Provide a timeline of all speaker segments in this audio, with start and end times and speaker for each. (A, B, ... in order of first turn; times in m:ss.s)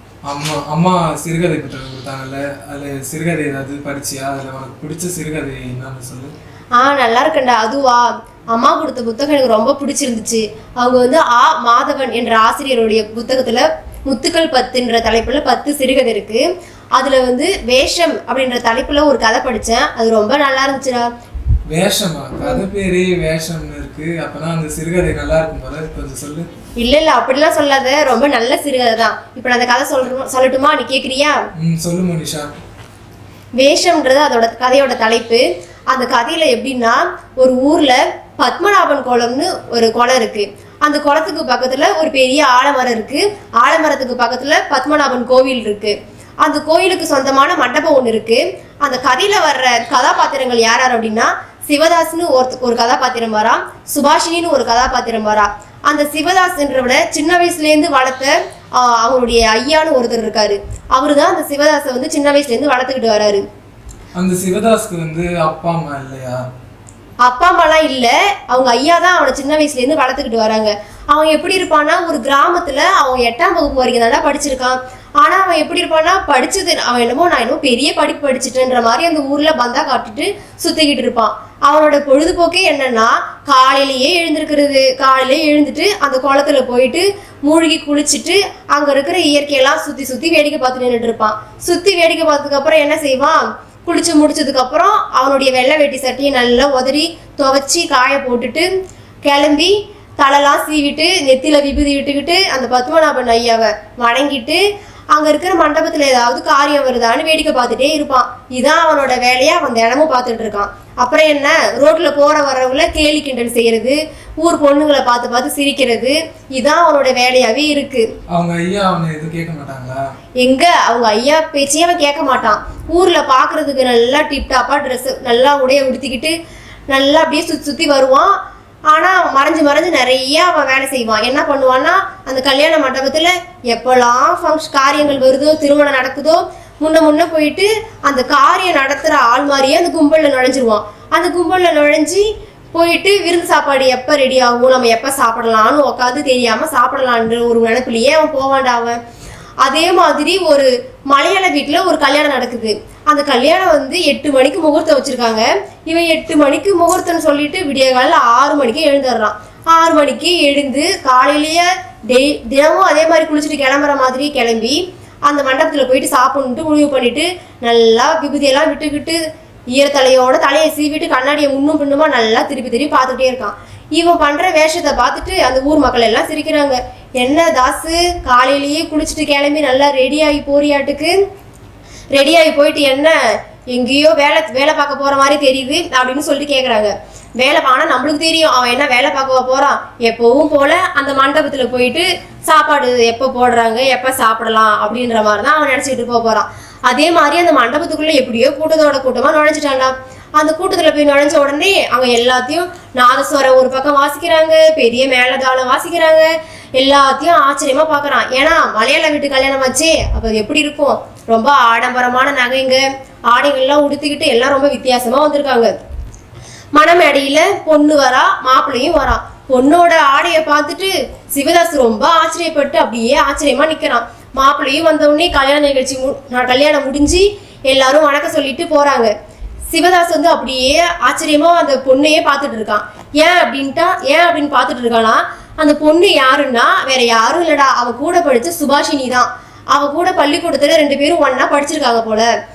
0:00.2-0:06.3 A
0:06.8-0:21.1 B
0:21.7-0:26.5 A
0:26.8-0:31.4 B
0:31.6-0:32.5 A
0:33.6-1:03.4 B
1:04.2-1:06.4 A
1:07.2-1:38.7 B
1:39.2-1:44.6 B
1:45.1-1:58.1 B
1:58.3-2:00.0 A
2:00.4-2:06.3 B
2:06.9-2:08.4 B
2:08.9-2:29.0 B
2:29.6-2:49.2 B
2:49.7-3:01.2 B
3:02.1-3:35.7 B
3:36.7-3:49.1 B
3:49.7-4:02.3 B